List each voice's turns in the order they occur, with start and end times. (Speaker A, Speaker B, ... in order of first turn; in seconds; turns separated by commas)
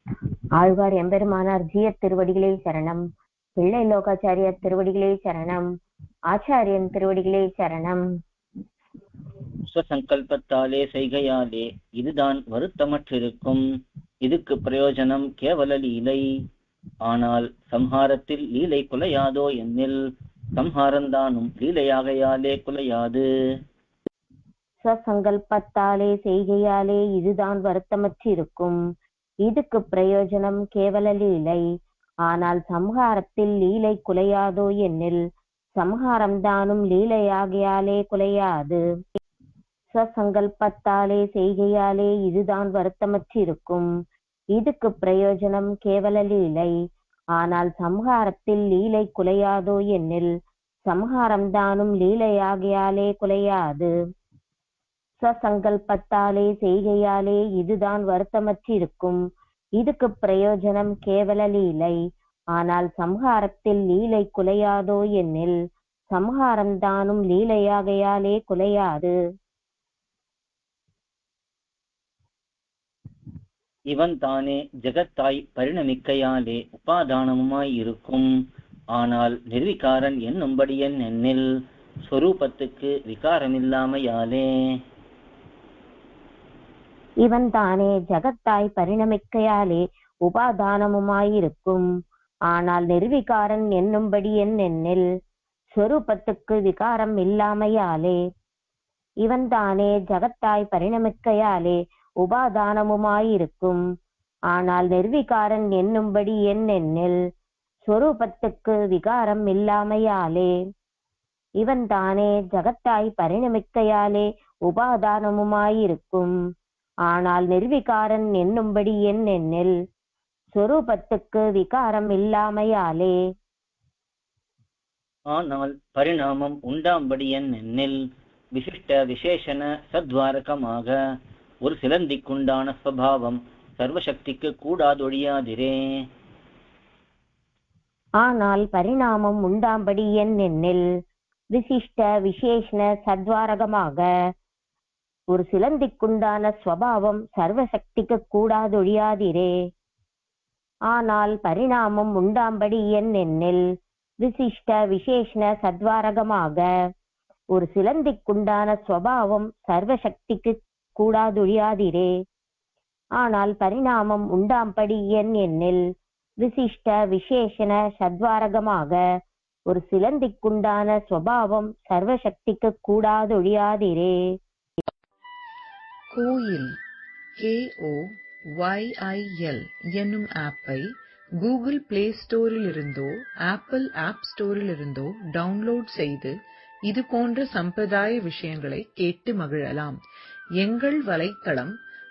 Speaker A: 0.6-3.0, Speaker A: 3.6-5.7, Speaker A: 6.3-8.0, Speaker B: 9.7-13.6, Speaker B: 14.2-16.2, Speaker B: 17.0-19.9, Speaker B: 20.5-23.2, Speaker A: 24.8-28.8, Speaker A: 29.4-31.6, Speaker A: 32.2-35.2, Speaker A: 35.8-38.8, Speaker A: 39.9-43.9, Speaker A: 44.5-46.7, Speaker A: 47.4-50.3, Speaker A: 50.9-53.9, Speaker A: 55.2-59.2, Speaker A: 59.8-61.9, Speaker A: 62.5-65.5, Speaker A: 66.1-69.1, Speaker B: 73.9-78.2, Speaker B: 78.9-81.5, Speaker B: 82.1-84.5, Speaker A: 87.2-91.8, Speaker A: 92.5-95.0, Speaker A: 95.7-98.2, Speaker A: 99.2-103.8, Speaker A: 104.5-107.2, Speaker A: 107.9-110.5, Speaker A: 111.6-116.3, Speaker A: 117.1-119.7, Speaker A: 120.5-123.1, Speaker B: 125.3-128.0, Speaker B: 128.5-130.9, Speaker B: 131.6-135.8, Speaker A: 138.2-140.8, Speaker A: 141.5-144.1, Speaker A: 145.3-149.5, Speaker A: 150.9-153.6, Speaker A: 154.2-156.6, Speaker A: 157.6-162.1, Speaker A: 163.2-165.8, Speaker A: 166.4-169.0, Speaker A: 169.7-174.2, Speaker C: 176.1-176.7, Speaker C: 177.4-190.0, Speaker C: 190.6-191.8